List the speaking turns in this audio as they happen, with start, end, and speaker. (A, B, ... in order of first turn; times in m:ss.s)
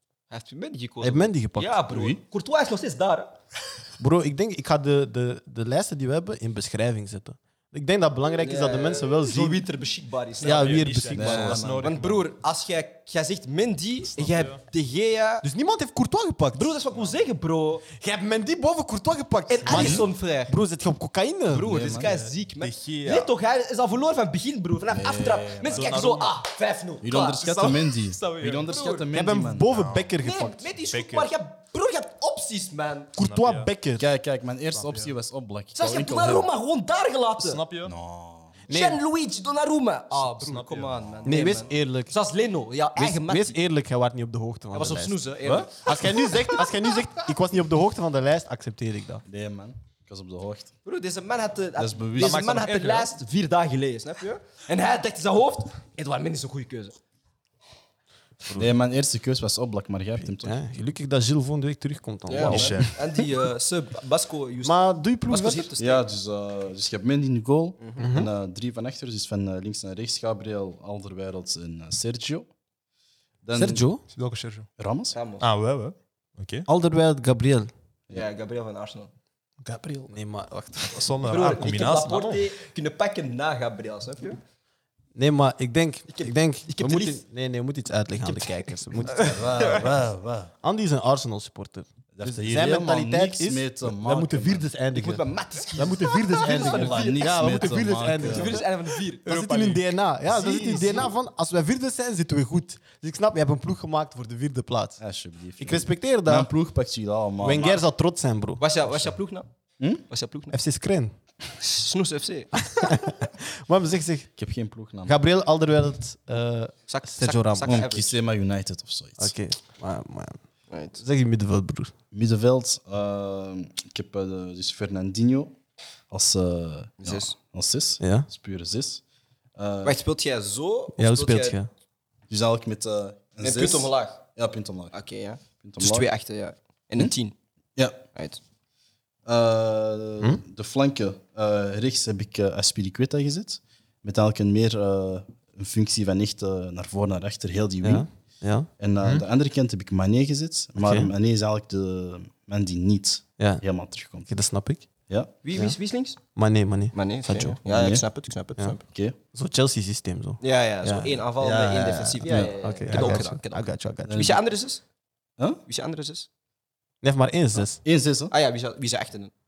0:00.3-0:03.4 A
0:01.0-0:01.8 B
0:01.9-0:02.2 C
0:04.0-0:09.6 B
0:08.4-0:15.4 A
0:10.4-0:11.6 B
0:10.4-0:12.3 D
0:11.1-0:11.9 C
0:14.1-0:14.6 D
0:15.4-0:16.8 B
0:16.5-0:17.9 A
0:16.9-0:17.2 D
0:18.0-0:21.9 B
0:19.5-0:20.6 A
0:19.7-0:20.0 C
0:21.5-0:27.9 A
0:21.6-0:22.2 C
0:22.0-0:23.3 D
0:24.9-0:25.9 C
0:25.6-0:26.4 D
0:27.0-0:29.7 C
0:28.1-0:28.7 D
0:28.6-0:29.1 A
0:29.1-0:30.7 B
0:29.7-0:30.1 D
0:30.2-0:33.1 A
0:30.9-0:31.3 D
0:33.2-0:34.1 B
0:33.2-0:33.7 D
0:34.0-0:36.5 C
0:34.7-0:35.1 D
0:35.8-0:37.6 A
0:37.4-0:38.0 D
0:37.8-0:38.6 C
0:38.7-0:39.0 B
0:38.7-0:43.6 A
0:40.1-0:41.3 D
0:41.2-0:42.1 B
0:43.0-0:49.2 B
0:44.7-0:46.6 A
0:49.3-0:50.7 C
0:50.8-0:57.0 A
0:51.8-0:52.4 C
0:52.2-0:53.1 D
0:58.6-1:00.6 C
1:00.2-1:02.9 B
1:02.3-1:06.1 A
1:02.4-1:03.0 D
1:04.6-1:05.7 B
1:05.8-1:12.5 C
1:07.8-1:08.1 A
1:08.0-1:08.3 B
1:13.4-1:13.8 C
1:13.6-1:14.0 B
1:14.1-1:14.7 D
1:14.8-1:15.2 C
1:15.1-1:15.5 A
1:15.4-1:16.7 D
1:16.7-1:17.7 B
1:18.1-1:19.1 A
1:19.6-1:20.1 D
1:20.1-1:21.0 B
1:20.9-1:22.5 D
1:21.2-1:24.4 A
1:25.2-1:29.8 B
1:26.1-1:27.2 A
1:28.3-1:28.6 A
1:29.2-1:30.5 C
1:30.6-1:35.2 B
1:32.2-1:34.7 C
1:34.9-1:37.3 A
1:35.8-1:38.7 B
1:36.4-1:38.6 C
1:38.2-1:39.4 A
1:39.2-1:45.0 B
1:39.3-1:39.8 D
1:40.3-1:41.1 A
1:40.6-1:40.9 C
1:45.0-1:47.8 C
1:45.6-1:46.5 B
1:47.4-1:49.1 B
1:48.6-1:49.5 A
1:50.0-1:50.6 A
1:50.5-1:51.1 B
1:51.6-1:52.5 A
1:52.6-1:54.3 B
1:54.4-1:55.2 C
1:55.1-1:57.8 B
1:56.9-1:58.2 A
1:57.6-1:59.3 C
1:59.2-2:00.4 B
2:00.7-2:01.0 A
2:01.0-2:01.9 B
2:02.1-2:05.6 C
2:06.1-2:09.0 C
2:07.0-2:07.4 A
2:08.0-2:08.3 B
2:09.6-2:10.0 C
2:09.8-2:11.6 A
2:11.0-2:11.7 B
2:12.3-2:14.9 C
2:13.4-2:14.2 A
2:14.9-2:17.4 A
2:15.6-2:16.1 C
2:17.8-2:18.0 C
2:18.1-2:18.4 A
2:19.3-2:28.1 C
2:27.8-2:28.7 B
2:28.8-2:34.3 C
2:30.8-2:31.1 B
2:33.4-2:33.6 B
2:34.3-2:34.9 B
2:35.4-2:36.2 A
2:36.4-2:37.6 B
2:36.9-2:38.8 A
2:37.7-2:38.0 C
2:38.9-2:39.2 C
2:39.3-2:44.4 B
2:40.4-2:44.8 A
2:42.3-2:42.5 C
2:42.9-2:43.2 D
2:44.1-2:44.4 C
2:45.7-2:46.3 A
2:47.0-2:47.8 B
2:47.8-2:48.3 C
2:48.3-2:49.3 A